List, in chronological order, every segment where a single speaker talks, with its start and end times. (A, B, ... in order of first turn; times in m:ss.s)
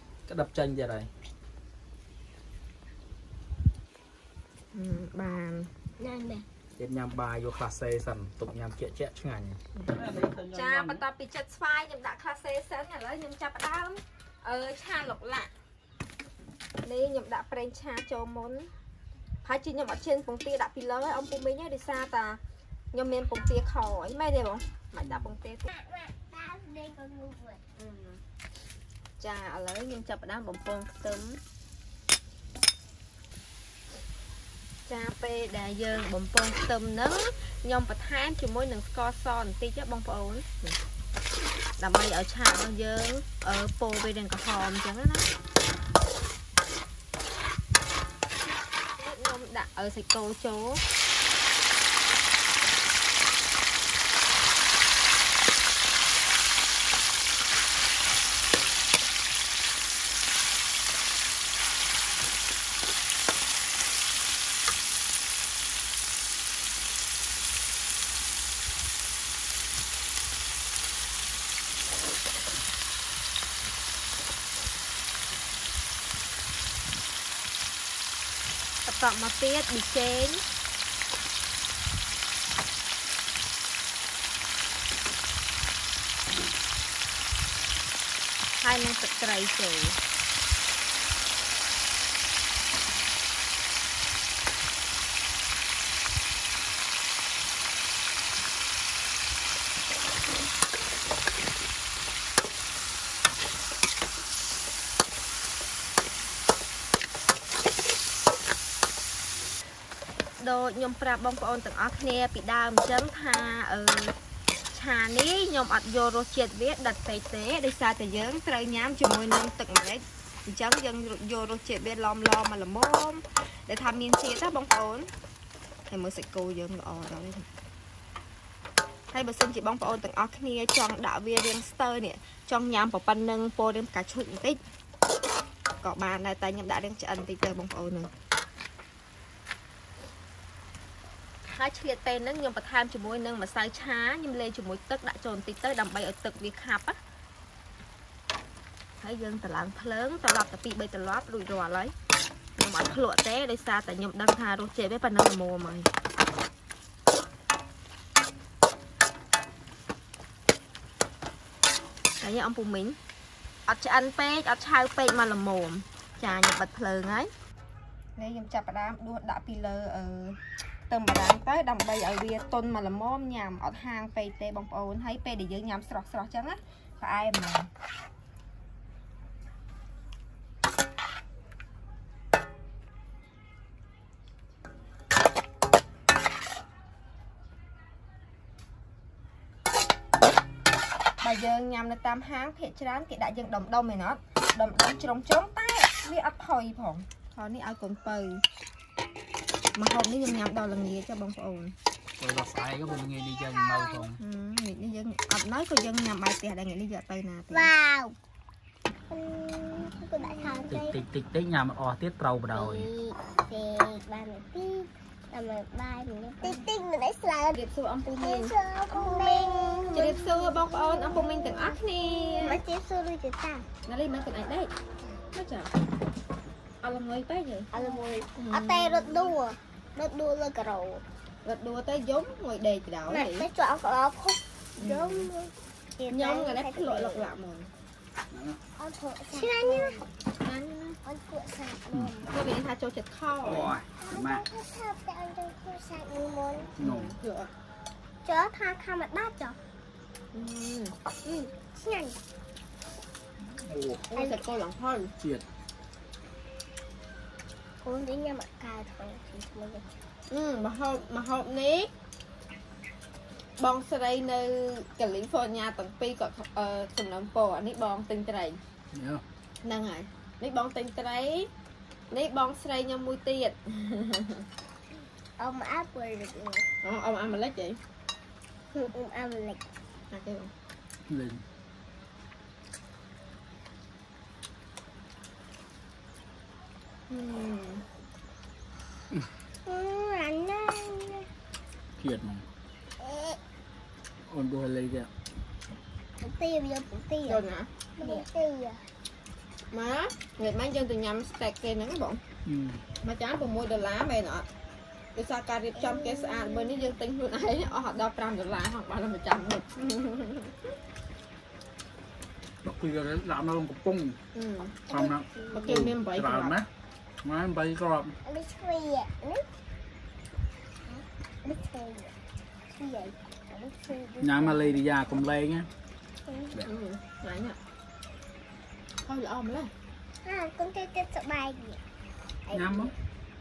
0:00.3-0:01.1 A
0:04.7-0:05.7 B
0:06.0-0:06.4 C
0:06.8-0:11.0 A
0:10.5-0:15.5 B
0:16.8-0:18.7 B
0:19.4-0:22.4 B
0:22.9-0:25.7 B
0:25.0-0:25.3 A
0:25.7-0:27.6 C
0:27.8-0:28.2 B
0:29.2-0:31.4 B
0:34.9-0:40.8 B
0:41.8-0:45.3 B
0:49.0-0:50.8 B
1:18.8-1:20.4 B
1:28.6-1:30.0 B
1:50.4-1:54.2 B
1:54.7-2:05.1 B
2:05.9-2:07.5 B
2:09.1-2:14.6 B
2:15.8-2:18.1 B
2:21.5-2:27.0 B
2:29.0-2:31.9 B
2:32.6-2:35.9 B
2:42.2-2:43.0 B
2:43.7-2:47.3 B
2:48.2-2:50.4 B
2:50.9-2:57.7 B
3:11.2-3:18.4 B
3:19.8-3:21.8 B
3:22.2-3:24.2 A
3:24.2-3:27.7 B
3:27.5-3:28.2 C
3:29.1-3:31.0 C
3:30.7-3:32.9 A
3:32.5-3:43.6 C
3:37.6-3:42.6 B
3:43.9-3:44.7 B
3:45.3-3:45.7 B
3:46.8-3:47.7 B
3:47.7-3:51.0 C
3:48.4-3:49.4 B
3:51.4-3:53.5 B
3:53.1-3:57.3 C
3:54.8-3:55.3 B
3:56.1-3:57.7 B
3:58.3-3:58.6 A
3:58.8-4:00.0 C
3:59.3-4:01.0 B
4:01.0-4:02.3 C
4:01.9-4:02.3 A
4:02.3-4:03.8 B
4:03.4-4:04.4 A
4:04.0-4:06.7 C
4:06.8-4:07.2 A
4:06.8-4:07.5 B
4:08.2-4:09.6 C
4:10.3-4:11.0 B
4:11.2-4:12.2 C
4:13.4-4:14.1 A
4:14.1-4:15.1 B
4:14.2-4:14.4 C
4:17.8-4:19.9 C
4:20.3-4:21.9 B
4:23.6-4:28.6 B
4:28.9-4:29.2 A
4:29.6-4:31.5 B
4:32.1-4:34.4 B
4:35.4-4:36.7 C
4:36.8-4:37.8 B
4:38.7-4:39.6 C
4:40.1-4:40.5 B
4:41.1-4:41.4 A
4:47.1-4:47.8 B
4:49.7-4:51.3 C
4:52.0-4:52.5 A
4:53.0-4:53.4 C
4:54.3-4:55.1 A
4:56.2-4:57.4 C
4:57.3-4:58.2 B
4:58.0-4:58.8 C
4:59.7-5:02.2 B
5:02.4-5:02.8 A
5:03.0-5:04.5 B
5:05.2-5:10.6 B
5:05.8-5:07.0 C
5:12.6-5:14.2 A
5:14.4-5:15.0 B
5:14.9-5:16.7 A
5:14.9-5:15.7 C
5:15.5-5:16.6 B
5:17.2-5:18.2 A
5:18.3-5:19.5 C
5:20.9-5:22.1 C
5:22.7-5:24.7 C
5:24.2-5:25.7 A
5:26.3-5:26.6 C
5:26.6-5:27.6 B
5:29.0-5:29.7 B
5:30.2-5:31.8 C
5:32.5-5:32.9 C
5:32.5-5:32.9 A